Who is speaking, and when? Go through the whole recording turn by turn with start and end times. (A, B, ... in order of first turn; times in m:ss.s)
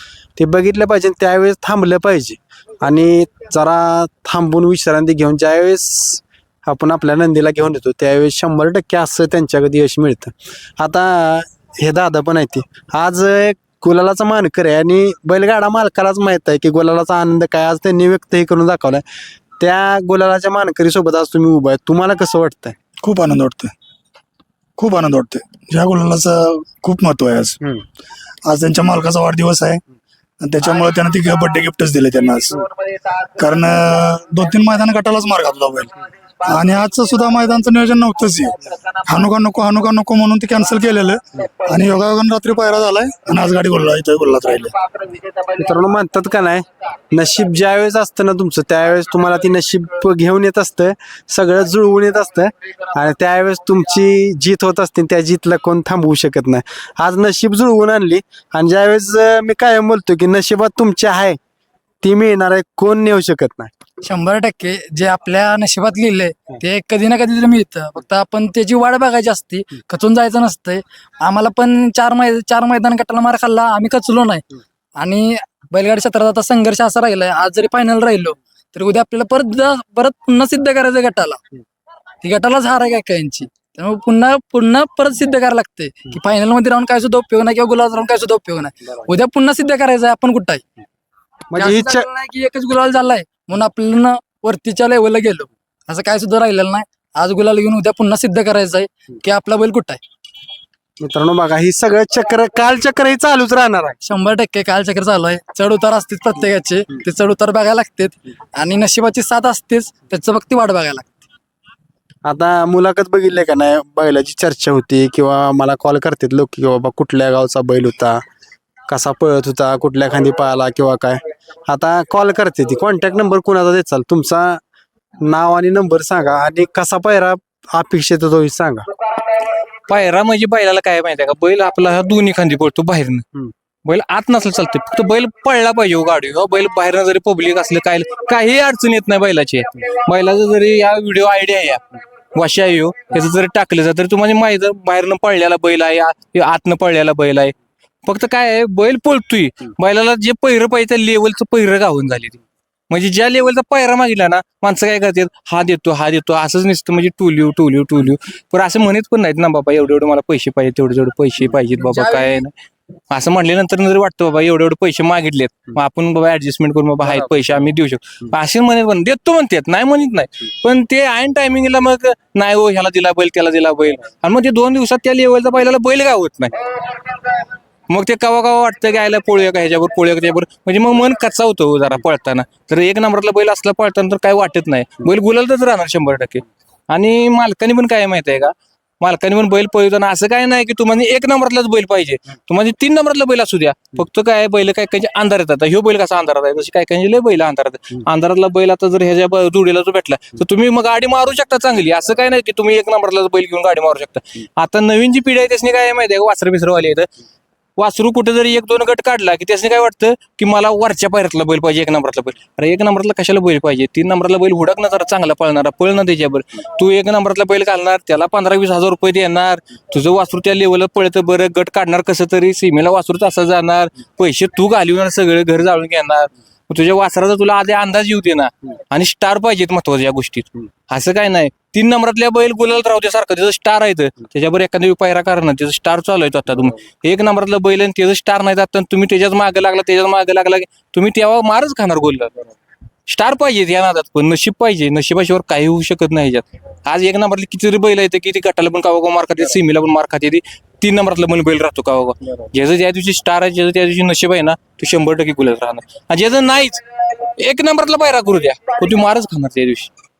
0:00.4-0:19.0 A
0:19.6-0:22.8 A
0:23.0-0:23.7 B
0:24.8-0:27.6 B
0:28.4-0:29.8 B
0:30.4-0:32.6 B
0:33.3-0:45.1 B
0:45.5-1:01.4 A
1:02.0-1:03.7 A
1:04.0-1:14.4 C
1:15.0-1:21.4 C
1:22.2-1:30.6 C
1:31.5-1:32.1 A
1:31.6-1:40.0 C
1:41.0-1:44.0 A
1:44.0-1:51.1 C
1:52.2-1:58.2 A
1:58.9-2:04.6 A
2:05.2-2:08.8 A
2:09.9-2:13.2 D
2:13.8-2:21.8 D
2:22.3-2:27.5 D
2:28.0-2:42.5 D
2:41.9-2:42.3 C
2:43.1-2:56.8 D
2:57.9-3:27.1 D
3:27.8-4:02.3 D
4:03.1-4:16.8 D
4:17.4-4:19.9 D